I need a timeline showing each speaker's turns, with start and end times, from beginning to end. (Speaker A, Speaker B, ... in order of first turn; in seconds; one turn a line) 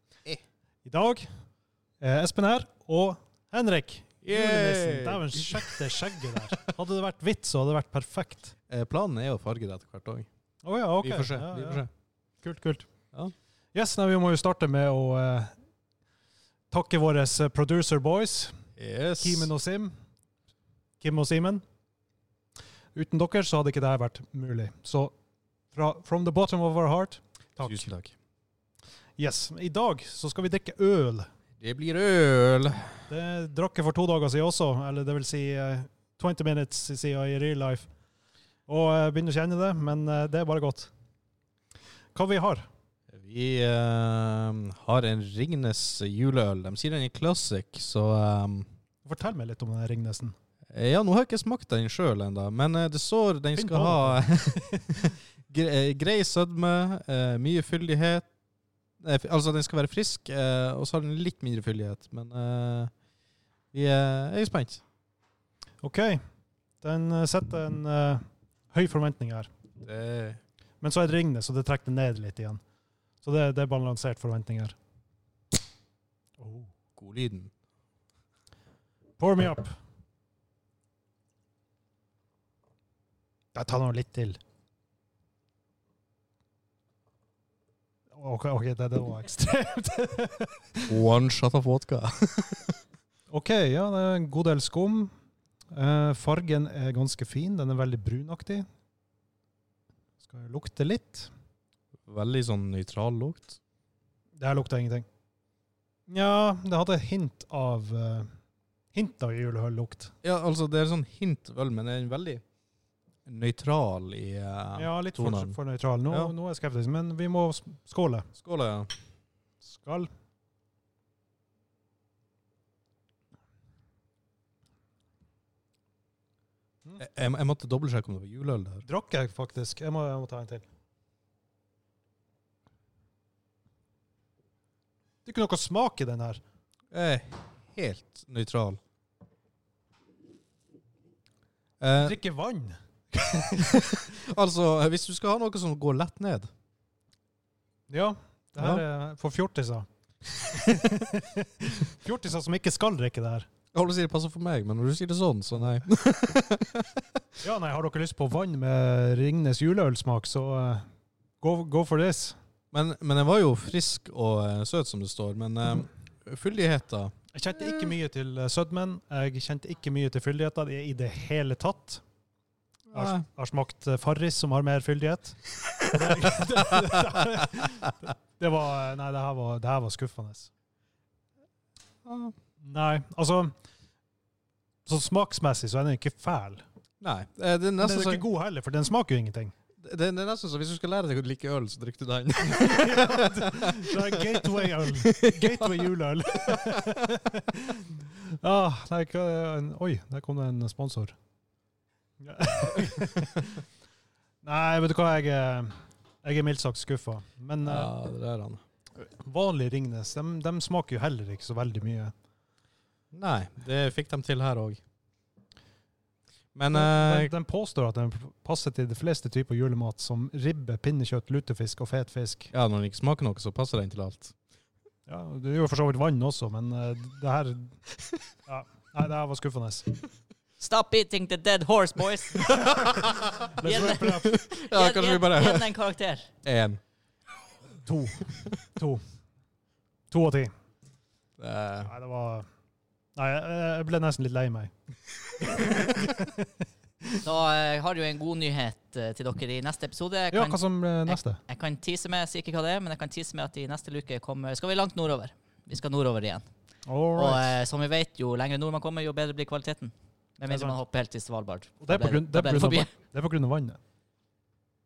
Speaker A: 0.8-1.3
Speaker A: 2.0-8.6
Speaker B: 4.2-6.3
Speaker B: 8.7-10.3
Speaker A: 10.6-11.8
Speaker B: 11.0-11.9
Speaker A: 12.4-12.9
Speaker A: 13.7-15.6
Speaker A: 16.7-18.6
Speaker B: 18.8-19.5
Speaker A: 19.2-19.9
Speaker A: 21.0-21.6
Speaker A: 22.9-25.1
Speaker A: 25.7-27.9
Speaker B: 27.6-28.1
Speaker A: 29.2-31.3
Speaker B: 31.6-32.9
Speaker A: 33.1-37.9
Speaker A: 38.7-40.9
Speaker A: 42.1-42.7
Speaker B: 43.1-48.7
Speaker A: 49.0-50.4
Speaker B: 50.7-58.3
Speaker A: 53.6-54.9
Speaker B: 59.0-62.9
Speaker B: 63.7-64.8
Speaker A: 65.8-66.2
Speaker A: 66.8-69.5
Speaker B: 69.8-70.4
Speaker A: 70.8-72.6
Speaker A: 73.2-74.8
Speaker A: 76.4-76.7
Speaker B: 77.0-77.5
Speaker A: 79.2-79.8
Speaker A: 83.5-84.4
Speaker A: 88.1-90.9
Speaker B: 90.9-92.8
Speaker A: 93.3-95.1
Speaker A: 95.7-98.7
Speaker A: 100.2-101.3
Speaker B: 102.1-103.6
Speaker A: 104.4-105.1
Speaker A: 106.1-108.3
Speaker A: 108.9-110.1
Speaker B: 110.2-112.4
Speaker B: 113.3-115.6
Speaker A: 114.8-118.3
Speaker B: 118.4-118.9
Speaker A: 119.6-120.1
Speaker B: 127.0-128.8
Speaker A: 128.8-130.6
Speaker A: 135.2-136.4
Speaker B: 136.9-138.8
Speaker B: 141.8-142.2
Speaker A: 142.0-143.8
Speaker B: 143.6-146.5
Speaker A: 147.9-149.9
Speaker A: 150.5-153.5
Speaker B: 153.7-157.0
Speaker A: 157.4-160.8
Speaker A: 161.4-162.4
Speaker B: 162.7-167.1
Speaker A: 167.3-172.0
Speaker B: 172.9-173.2
Speaker A: 172.9-180.5
Speaker B: 182.1-182.3
Speaker A: 182.6-183.5
Speaker A: 184.8-186.6
Speaker B: 187.0-188.2
Speaker A: 187.8-189.6
Speaker B: 189.8-197.0
Speaker A: 192.5-201.1
Speaker A: 202.2-203.6
Speaker A: 204.4-207.9
Speaker B: 207.7-208.6
Speaker A: 209.0-212.1
Speaker B: 213.1-214.8
Speaker B: 216.6-217.3
Speaker A: 216.7-222.5
Speaker B: 222.5-224.3
Speaker A: 225.1-227.8
Speaker A: 228.5-229.9
Speaker C: 230.6-232.7
Speaker B: 232.5-235.8
Speaker A: 233.6-234.4
Speaker C: 233.6-236.3
Speaker B: 236.4-236.8
Speaker A: 237.8-239.0
Speaker A: 240.1-240.5
Speaker B: 241.4-241.9
Speaker A: 241.8-242.5
Speaker A: 243.2-244.7
Speaker A: 245.4-246.5
Speaker C: 247.2-256.5
Speaker A: 250.3-251.4
Speaker A: 256.9-257.6
Speaker C: 257.1-262.9
Speaker A: 260.5-260.8
Speaker A: 261.8-263.8